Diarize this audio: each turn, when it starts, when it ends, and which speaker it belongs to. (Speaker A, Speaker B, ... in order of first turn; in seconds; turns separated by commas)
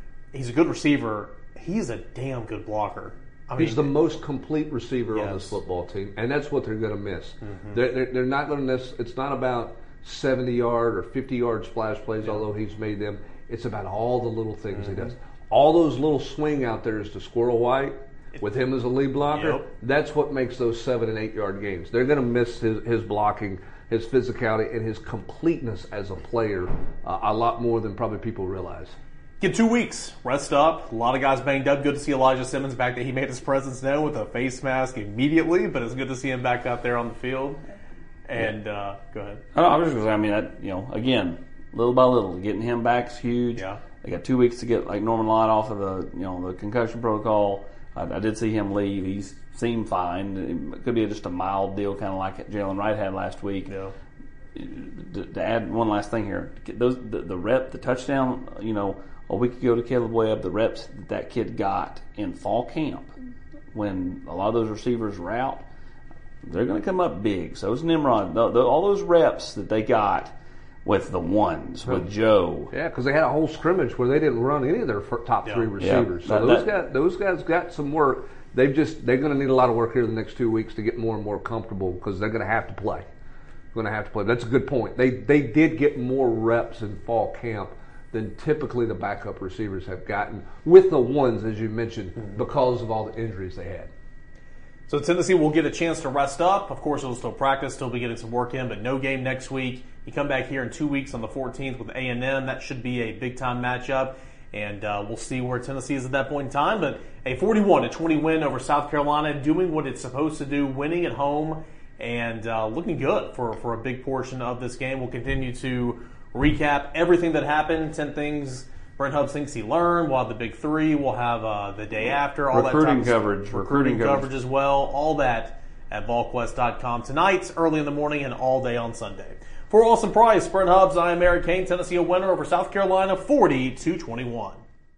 Speaker A: 0.3-4.2, Speaker B: 3.6-29.0, Speaker A: 5.1-5.6, Speaker A: 7.4-7.8, Speaker A: 12.2-12.5, Speaker A: 14.7-15.1, Speaker A: 19.2-19.7, Speaker A: 29.4-37.6, Speaker A: 38.3-39.4, Speaker C: 39.5-53.7, Speaker A: 43.5-43.8, Speaker A: 53.7-53.9, Speaker C: 54.5-63.1, Speaker C: 63.7-65.7, Speaker C: 66.4-72.7, Speaker B: 72.7-83.1, Speaker C: 75.8-76.7, Speaker B: 83.7-93.9, Speaker A: 94.9-134.6, Speaker C: 122.0-124.3